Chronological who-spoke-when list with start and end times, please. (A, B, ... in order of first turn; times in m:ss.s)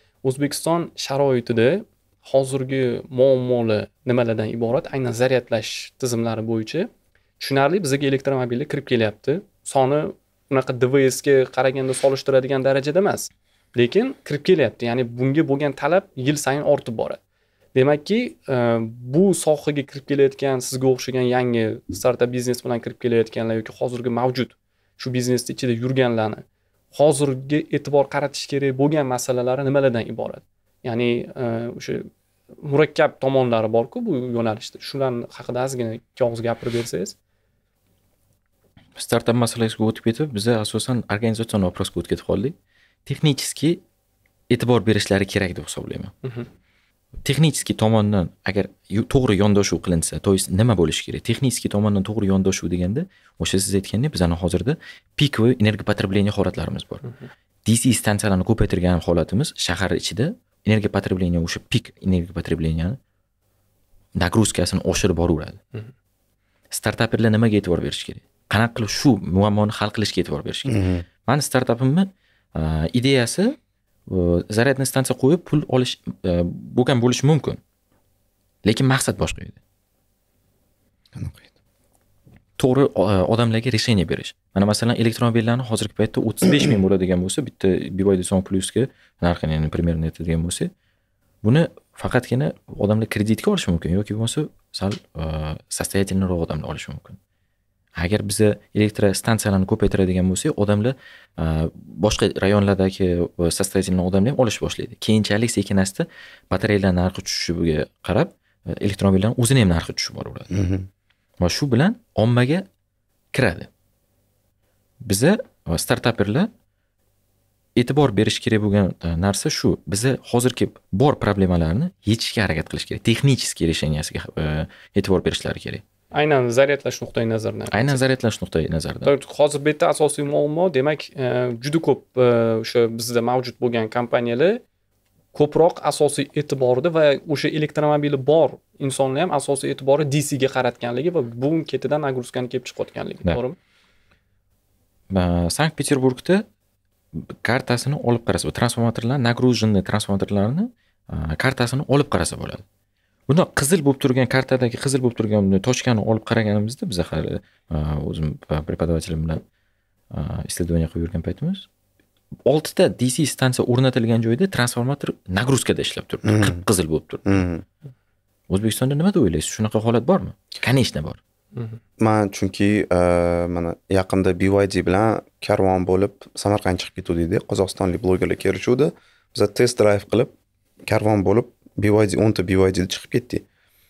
0:00.2-0:17.2 A
0:17.7-0:32.1 A
0:32.6-0:37.2 A
0:39.0-0:43.8 B
0:44.5-0:46.1 B
0:47.2-0:57.0 B
0:57.6-1:03.0 B
1:04.2-1:05.6 B
1:06.7-1:13.5 B
1:10.7-1:11.0 C
1:14.1-1:17.6 B
1:18.6-1:19.6 B
1:21.1-1:21.5 C
1:22.6-1:30.7 B
1:31.4-1:37.2 B
1:38.0-1:50.5 B
1:50.5-1:50.9 C
1:51.4-1:52.7 B
1:53.3-1:53.7 B
1:55.0-1:56.5 B
1:57.8-2:05.8 B
2:06.1-2:08.0 A
2:07.7-2:09.1 B
2:09.0-2:14.6 A
2:15.3-2:23.6 A
2:25.1-2:26.4 B
2:27.2-2:32.6 B
2:33.3-2:39.4 B
2:40.1-2:41.7 B
2:42.4-2:47.4 B
2:46.2-2:46.6 C
2:47.2-2:47.6 C
2:48.5-2:51.2 B
2:52.0-3:00.3 C
3:00.9-3:03.4 C